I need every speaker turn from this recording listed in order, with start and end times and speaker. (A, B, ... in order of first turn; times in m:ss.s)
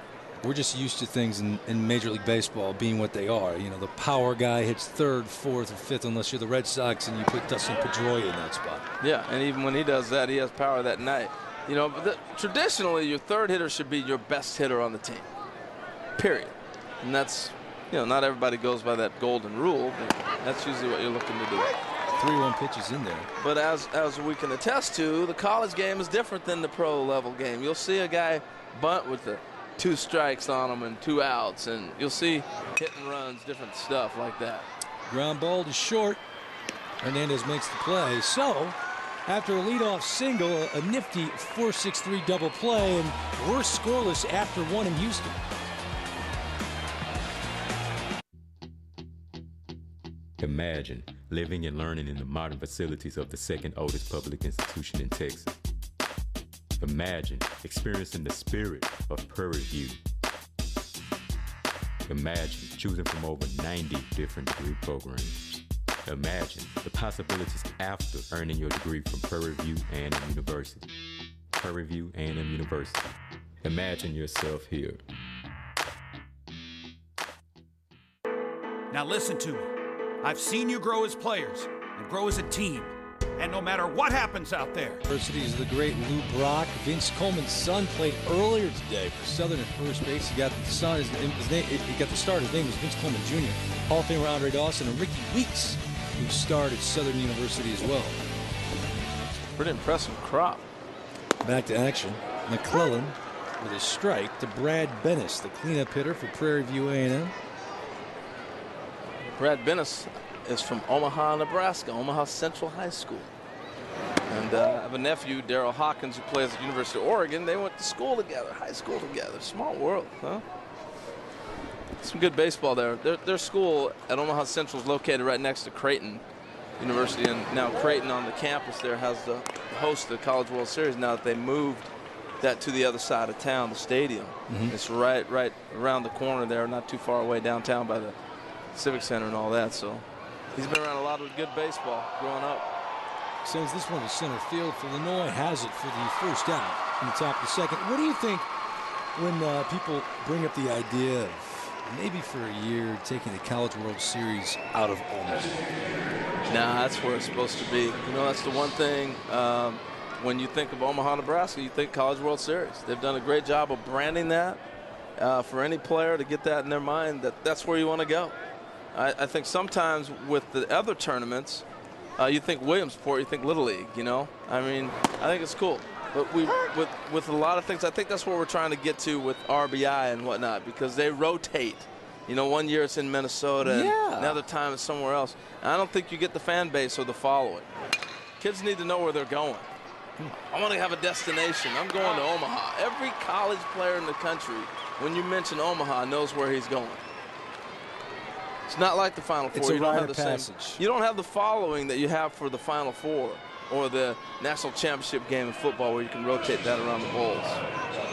0:00.4-0:08.9 A
0:09.0-0:15.3 B
0:16.2-0:21.7 B
0:22.1-0:23.3 A
0:23.4-0:34.7 B
0:35.1-0:36.2 A
0:37.0-0:45.4 A
0:50.4-0:55.5 C
0:56.8-1:00.0 C
1:02.1-1:10.9 C
1:11.6-1:13.1 C
1:13.6-1:15.0 C
1:18.9-1:19.7 D
1:20.2-1:22.9 D
1:23.4-1:25.0 D
1:25.1-1:38.2 A
1:39.6-1:40.6 B
1:41.4-1:47.3 A
1:49.2-1:53.3 B
1:54.3-2:00.4 B
2:02.0-2:06.2 B
2:06.8-2:18.2 B
2:14.5-2:14.8 A
2:18.7-2:22.7 B
2:23.4-2:28.5 A
2:29.2-2:35.6 A
2:36.5-2:44.6 B
2:45.2-2:48.4 B
2:48.9-2:51.6 B
2:52.2-3:07.7 B
3:03.6-3:04.4 A
3:08.4-3:09.7 B
3:10.3-3:17.0 B
3:18.7-3:27.6 B
3:19.5-3:20.8 A